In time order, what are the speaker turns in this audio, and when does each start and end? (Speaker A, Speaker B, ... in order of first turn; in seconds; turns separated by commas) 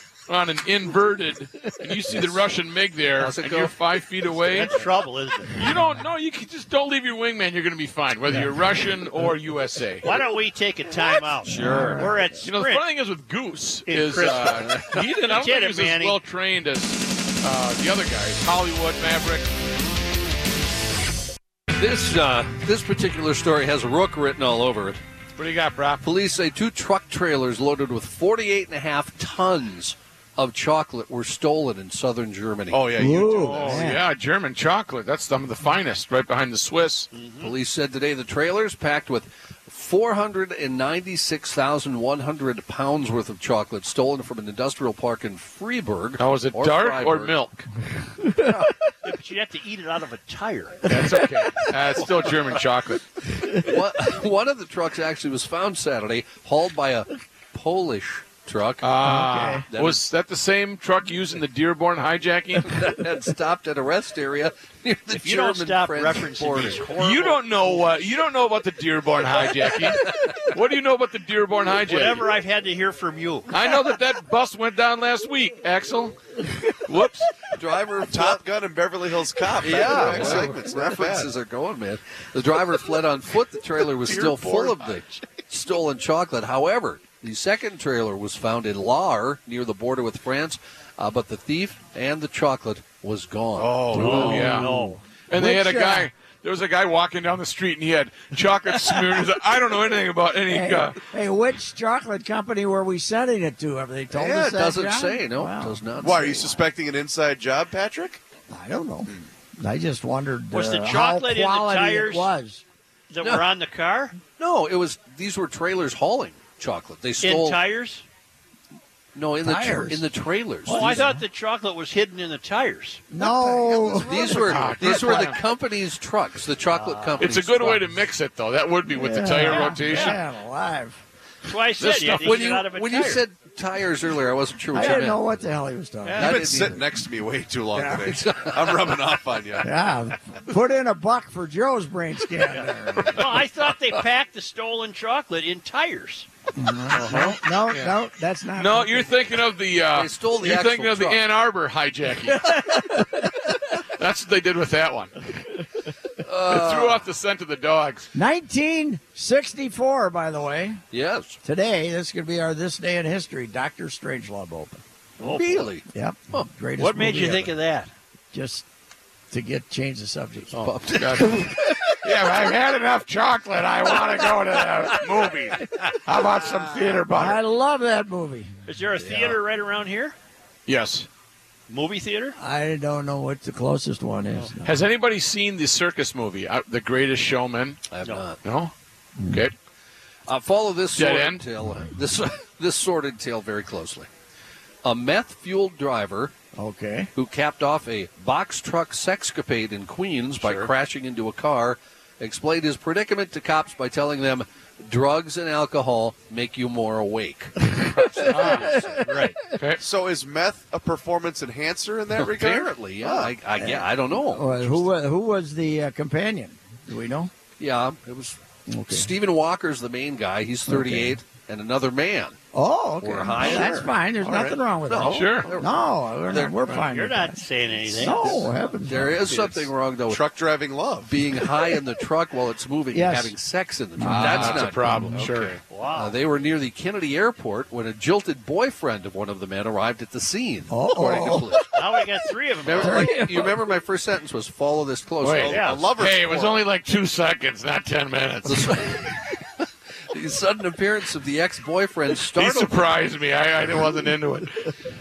Speaker A: 0.3-4.8, Speaker B: 3.2-3.8, Speaker C: 4.5-5.7, Speaker A: 5.5-10.1, Speaker C: 10.0-12.8, Speaker B: 11.4-12.1, Speaker D: 11.6-12.3, Speaker A: 12.4-19.5, Speaker C: 13.8-16.2, Speaker B: 14.6-15.0, Speaker B: 21.7-25.0, Speaker A: 25.4-26.0, Speaker B: 26.0-33.0, Speaker E: 32.7-33.8, Speaker D: 33.0-34.0, Speaker C: 33.3-33.9, Speaker A: 33.5-37.1, Speaker C: 37.1-37.5, Speaker B: 37.4-47.4, Speaker A: 46.2-47.6, Speaker C: 49.0-51.0, Speaker A: 50.9-53.0, Speaker B: 53.5-59.0, Speaker A: 58.8-62.8, Speaker D: 59.0-59.6, Speaker B: 59.7-60.0, Speaker B: 62.6-66.9, Speaker C: 65.2-68.0, Speaker A: 66.9-72.3, Speaker B: 69.8-70.4, Speaker C: 71.8-73.5, Speaker A: 73.5-76.2, Speaker A: 76.7-77.3, Speaker B: 77.5-78.4, Speaker E: 78.1-81.3, Speaker B: 79.6-94.5, Speaker E: 84.0-84.9, Speaker E: 93.5-94.6, Speaker A: 93.9-101.0, Speaker D: 94.0-96.1, Speaker C: 94.0-95.0, Speaker D: 100.5-105.9, Speaker E: 104.1-104.6, Speaker B: 104.3-106.7, Speaker E: 106.0-108.2, Speaker D: 108.5-112.6, Speaker C: 110.5-112.3, Speaker C: 113.1-114.2, Speaker B: 114.4-117.7, Speaker C: 117.2-118.0, Speaker B: 119.1-121.1, Speaker D: 119.4-120.0, Speaker D: 120.7-121.2, Speaker C: 120.7-123.1, Speaker D: 123.1-124.5, Speaker E: 123.1-125.3, Speaker B: 124.0-127.9, Speaker A: 124.4-125.4, Speaker C: 126.7-127.4, Speaker A: 127.2-130.2, Speaker D: 128.9-131.0, Speaker C: 129.6-130.2, Speaker C: 131.4-133.2, Speaker A: 131.8-132.6, Speaker B: 132.0-135.4, Speaker D: 134.7-136.8, Speaker B: 136.1-136.8, Speaker E: 136.2-139.7, Speaker D: 137.7-138.1, Speaker B: 137.9-139.0, Speaker D: 139.6-143.4, Speaker C: 143.1-146.3, Speaker D: 146.5-149.1, Speaker A: 146.9-148.0, Speaker A: 148.5-152.9, Speaker B: 149.9-151.2, Speaker D: 152.4-153.2, Speaker A: 153.7-155.1, Speaker B: 156.2-157.1, Speaker A: 156.5-158.1, Speaker D: 158.1-160.8, Speaker B: 160.9-161.4, Speaker D: 161.4-164.8, Speaker C: 165.2-165.7, Speaker B: 165.2-166.5, Speaker D: 165.9-167.6, Speaker C: 166.8-167.9, Speaker D: 168.3-168.6, Speaker D: 169.3-170.7, Speaker B: 170.5-171.9, Speaker A: 170.9-177.4, Speaker D: 177.1-178.5, Speaker C: 178.7-180.1, Speaker A: 180.7-181.1, Speaker C: 181.7-182.3, Speaker D: 182.4-184.9, Speaker A: 184.7-187.8, Speaker B: 187.9-188.4, Speaker A: 188.4-188.7, Speaker D: 189.2-189.4, Speaker B: 190.3-194.1, Speaker A: 190.9-191.4, Speaker B: 194.8-196.3, Speaker D: 196.6-197.1, Speaker B: 197.1-209.1, Speaker E: 200.4-200.7, Speaker D: 207.7-209.2, Speaker A: 208.3-208.8, Speaker C: 209.0-209.3, Speaker A: 209.6-209.8, Speaker E: 209.8-212.8, Speaker B: 212.2-214.9, Speaker D: 213.0-217.3, Speaker B: 217.6-222.4, Speaker D: 218.7-219.1, Speaker D: 220.7-221.2, Speaker D: 222.5-227.4, Speaker B: 223.0-226.6, Speaker A: 225.0-225.5, Speaker C: 226.7-228.5, Speaker B: 228.0-230.2, Speaker D: 228.0-229.2, Speaker E: 229.3-231.8, Speaker B: 231.1-235.3, Speaker D: 232.9-233.3, Speaker D: 234.0-235.2, Speaker A: 234.1-235.6, Speaker E: 234.1-235.6, Speaker C: 235.7-236.1, Speaker B: 235.9-241.8, Speaker D: 240.7-241.5, Speaker C: 241.7-243.3, Speaker B: 242.6-245.9, Speaker D: 242.7-243.5, Speaker A: 245.2-249.0, Speaker E: 245.3-246.7, Speaker C: 245.4-245.8, Speaker B: 248.4-252.9, Speaker A: 252.3-254.7